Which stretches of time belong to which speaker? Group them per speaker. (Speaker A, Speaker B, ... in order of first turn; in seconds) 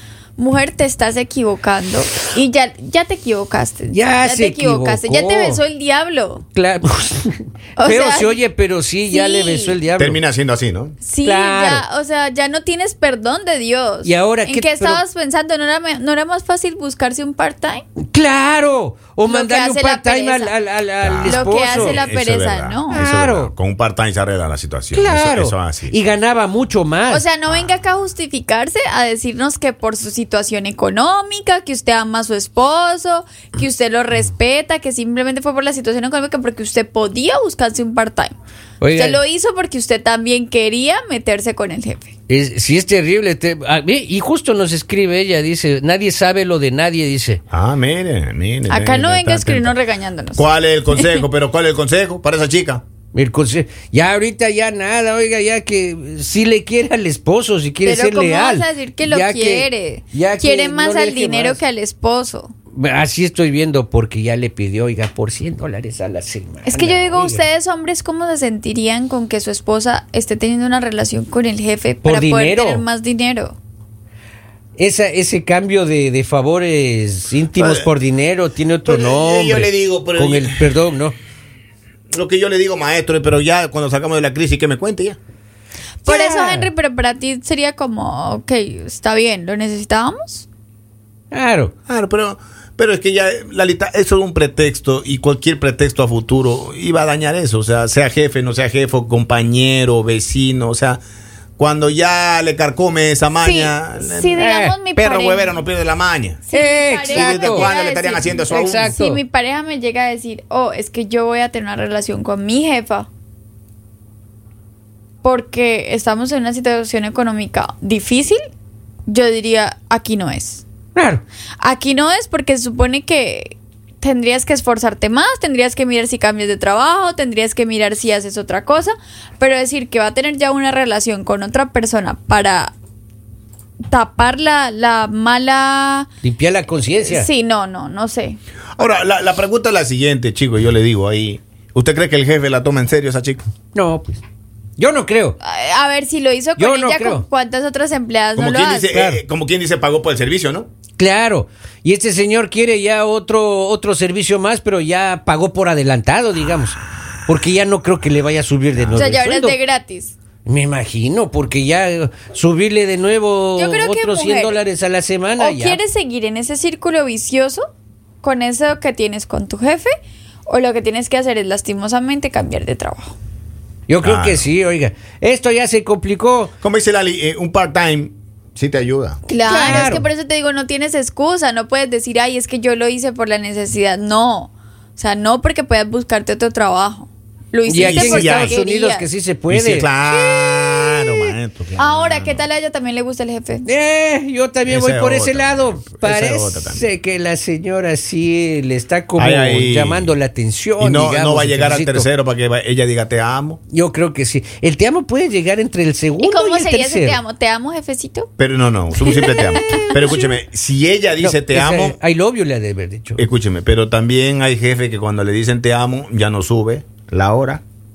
Speaker A: 0.4-6.4, 7.8-8.4, 9.1-9.8, 11.0-17.8, 19.2-20.5, 21.2-23.0, 27.1-38.4, 38.9-42.1, 48.7-51.3, 57.8-62.5, 66.7-73.6, 86.0-90.5, 103.4-105.6, 106.5-113.1, 115.2-118.4, 119.1-120.6, 121.6-132.7, 133.9-136.1, 137.0-138.4, 145.4-148.9, 158.9-160.1, 163.6-164.6, 165.4-167.7, 168.2-169.9, 170.5-173.2, 179.3-189.1, 191.8-193.7, 206.2-208.3, 209.0-209.9
Speaker B: 3.9-5.6, 6.5-10.2, 11.2-11.8, 14.0-15.0, 18.1-22.1, 22.9-23.5, 24.9-27.2, 38.8-39.2, 42.3-47.4, 53.1-61.6, 62.7-67.5, 72.0-72.8, 74.8-81.2, 86.1-86.7, 91.3-91.7, 104.4-104.8, 106.5-107.7, 108.5-109.2, 121.0-121.2, 136.2-137.3, 143.7-144.2, 144.8-145.4, 146.6-147.2, 148.9-149.2, 151.0-159.6, 160.4-165.8, 173.9-176.5, 179.4-180.0, 187.7-191.4, 193.7-202.1, 203.7-207.2, 209.3-210.4, 211.2-213.2
Speaker C: 10.0-11.0, 21.0-26.0, 47.5-49.8, 50.4-52.8, 77.5-77.9, 78.8-80.8, 82.1-85.2, 91.9-101.0, 101.6-104.4, 105.0-106.5, 107.1-109.0, 138.8-143.4, 148.4-150.7, 174.0-174.5, 176.6-179.2, 187.8-188.6, 189.5-192.4, 194.7-196.9, 199.2-200.1, 200.8-203.6, 208.4-212.0, 213.2-217.6